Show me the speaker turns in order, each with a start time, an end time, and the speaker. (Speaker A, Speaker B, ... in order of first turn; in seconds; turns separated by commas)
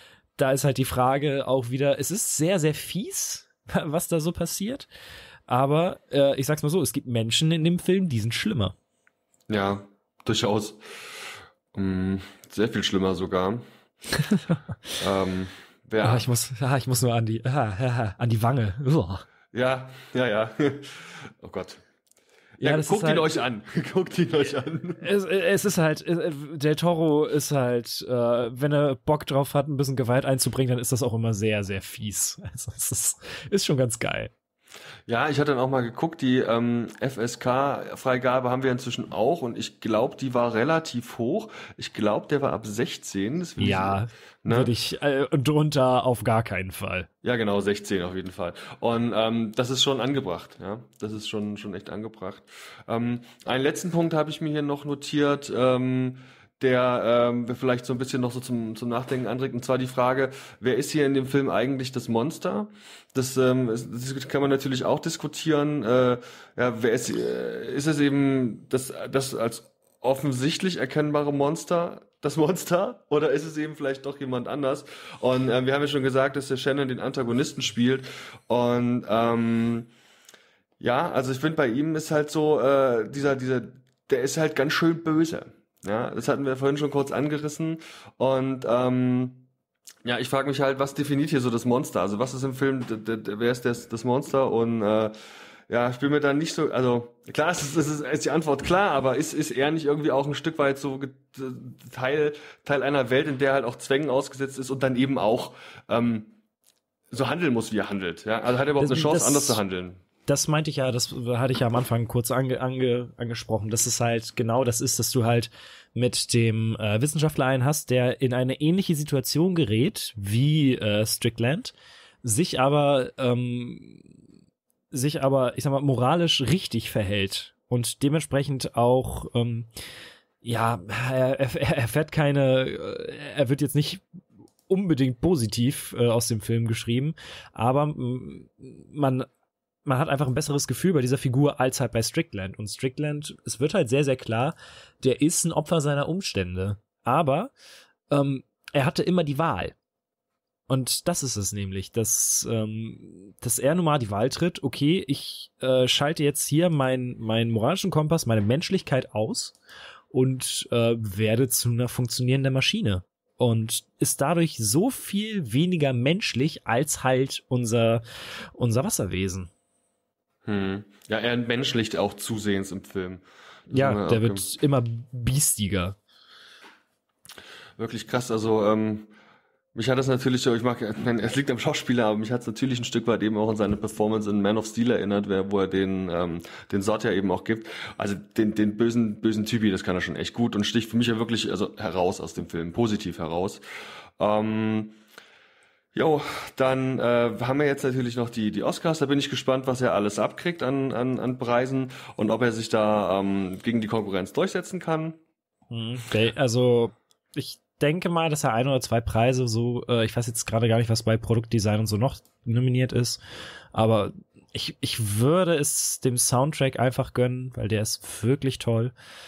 Speaker A: 0.4-4.9, Speaker A: 5.5-8.8, Speaker B: 9.5-10.8, Speaker B: 11.7-13.6, Speaker A: 14.2-14.9, Speaker B: 15.0-16.2, Speaker A: 16.0-19.3, Speaker B: 19.5-21.8, Speaker A: 22.6-23.3, Speaker B: 22.6-25.1, Speaker A: 25.0-34.3, Speaker B: 35.1-44.7, Speaker A: 43.6-47.1, Speaker B: 47.2-79.9, Speaker B: 80.8-89.5, Speaker B: 90.0-95.1, Speaker B: 95.7-106.3, Speaker B: 107.1-110.0, Speaker A: 108.8-109.6, Speaker A: 110.3-124.1, Speaker A: 124.9-129.7, Speaker A: 130.4-134.0, Speaker A: 134.7-139.3, Speaker A: 139.8-147.5, Speaker A: 148.1-149.8, Speaker A: 150.7-159.6, Speaker A: 160.1-168.0, Speaker A: 168.6-169.5, Speaker B: 170.5-174.4, Speaker A: 173.7-176.0, Speaker B: 177.8-179.1, Speaker B: 179.8-193.6, Speaker B: 194.2-195.0, Speaker B: 195.9-205.2, Speaker A: 205.7-213.2, Speaker A: 213.7-218.9